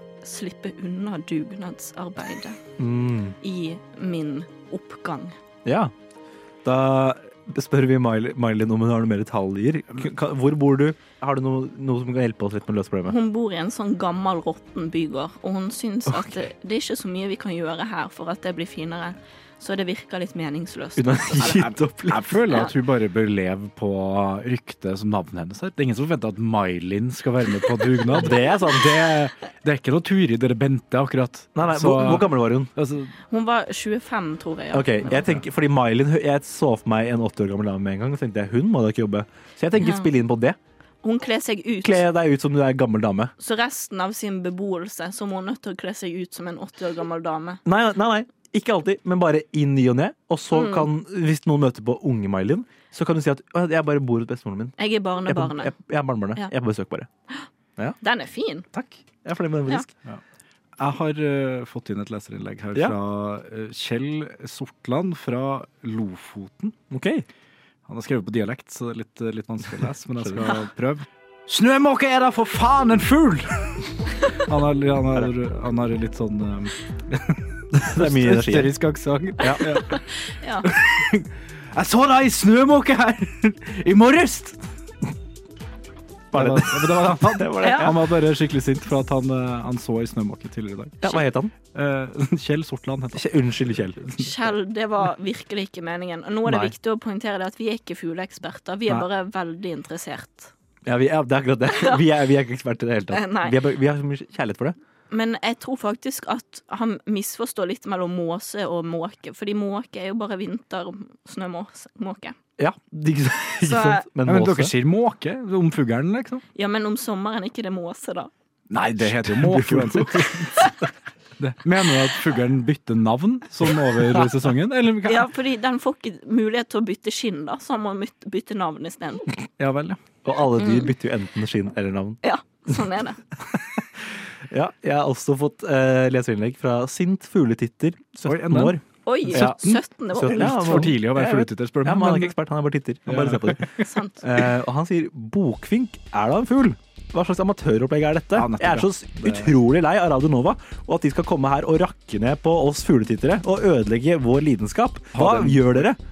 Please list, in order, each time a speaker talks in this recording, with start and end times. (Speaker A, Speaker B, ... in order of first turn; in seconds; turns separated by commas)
Speaker A: 0.2-2.6, Speaker B: 2.8-3.4, Speaker A: 3.4-5.3, Speaker B: 5.6-5.9, Speaker B: 6.6-13.2, Speaker A: 13.0-21.6, Speaker B: 16.1-16.4, Speaker B: 21.0-22.4, Speaker C: 21.5-33.1, Speaker B: 28.1-29.2, Speaker B: 31.5-32.7, Speaker A: 33.3-35.3, Speaker B: 34.7-40.6, Speaker A: 39.8-40.1, Speaker A: 41.0-42.0, Speaker B: 41.8-43.3, Speaker A: 43.4-47.6, Speaker B: 47.6-57.1, Speaker A: 50.5-50.9, Speaker A: 54.8-55.7, Speaker A: 58.0-58.6, Speaker B: 58.7-59.9, Speaker C: 60.8-66.8, Speaker B: 66.9-67.2, Speaker C: 67.9-73.8, Speaker B: 70.2-70.5, Speaker C: 74.3-80.0, Speaker B: 77.7-78.7, Speaker A: 79.6-80.7, Speaker C: 80.6-84.6, Speaker B: 86.3-88.1, Speaker C: 86.3-91.2, Speaker A: 87.6-87.9, Speaker B: 91.0-91.5, Speaker C: 91.7-93.3, Speaker B: 93.1-94.1, Speaker A: 94.2-100.5, Speaker B: 96.5-96.7, Speaker B: 100.8-104.8, Speaker A: 101.7-102.0, Speaker A: 103.1-103.6, Speaker A: 105.1-112.3, Speaker B: 112.6-114.7, Speaker A: 113.6-114.0, Speaker C: 114.2-116.4, Speaker A: 116.5-118.3, Speaker C: 118.7-120.6, Speaker B: 119.0-120.9, Speaker C: 121.4-125.3, Speaker A: 125.0-129.2, Speaker C: 129.6-130.0, Speaker B: 130.2-132.2, Speaker A: 130.6-130.9, Speaker A: 132.2-133.2, Speaker B: 134.5-156.0, Speaker C: 138.2-142.3, Speaker A: 139.1-140.9, Speaker C: 143.1-143.8, Speaker A: 143.8-144.2, Speaker C: 148.3-149.5, Speaker C: 155.1-155.9